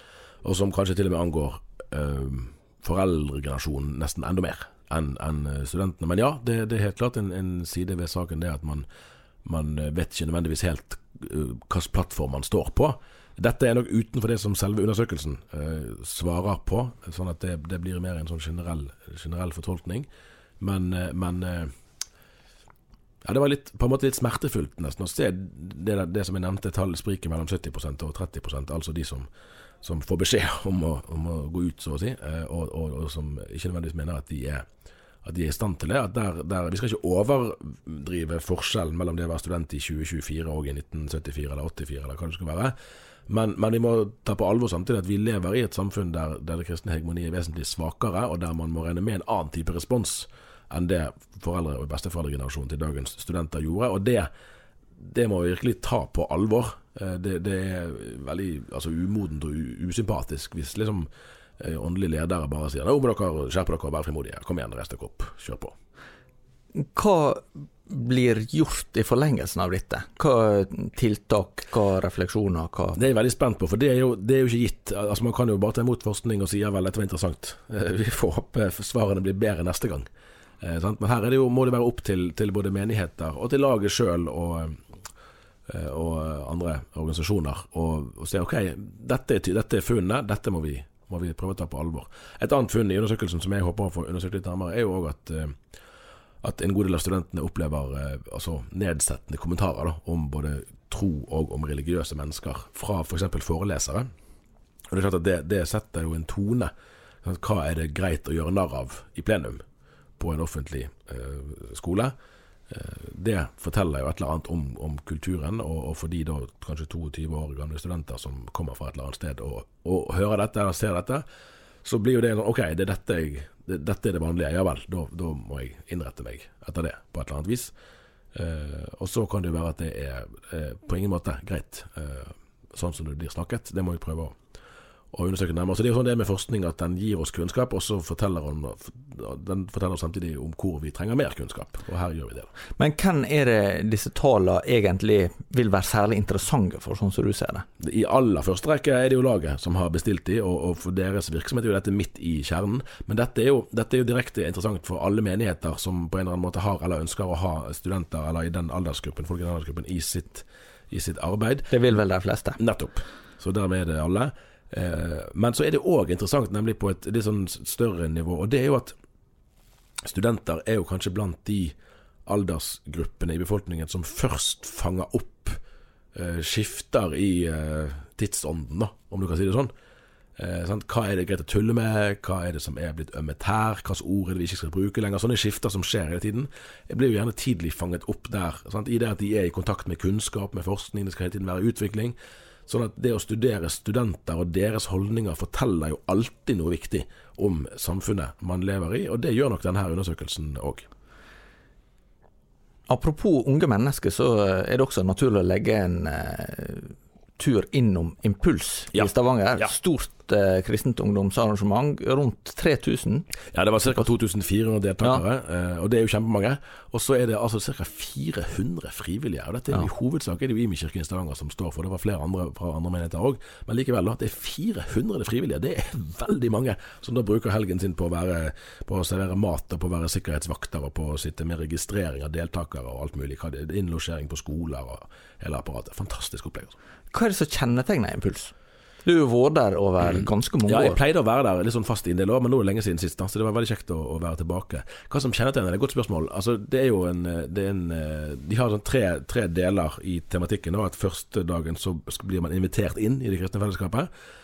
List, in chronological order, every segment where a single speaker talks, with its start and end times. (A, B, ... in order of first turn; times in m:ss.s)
0:00.4-0:08.9 A
0:09.4-0:20.1 A
0:20.6-0:21.7 A
0:23.2-0:29.3 A
0:29.8-0:34.6 A
0:35.2-0:42.7 A
0:43.3-0:54.3 A
0:55.0-1:01.1 A
1:01.6-1:05.7 A
1:06.8-1:13.0 B
1:13.0-1:20.1 A
1:20.6-1:24.8 A
1:25.7-1:35.6 A
1:36.4-1:44.1 A
1:44.9-1:46.7 A
1:47.2-1:49.6 A
1:50.2-1:52.1 A
1:52.7-2:01.2 A
2:01.8-2:07.7 A
2:08.3-2:14.4 A
2:15.1-2:22.5 A
2:22.8-2:27.7 B
2:27.8-2:41.7 A
2:41.7-2:42.6 B
2:42.6-2:48.9 A
2:50.0-2:51.8 A
2:52.3-2:55.6 A
2:56.2-2:59.7 A
3:00.4-3:12.2 A
3:12.7-3:20.9 A
3:22.9-3:33.3 B
3:33.5-3:56.8 A
3:57.1-3:58.5 B
3:59.0-4:01.0 B
4:00.7-4:14.1 A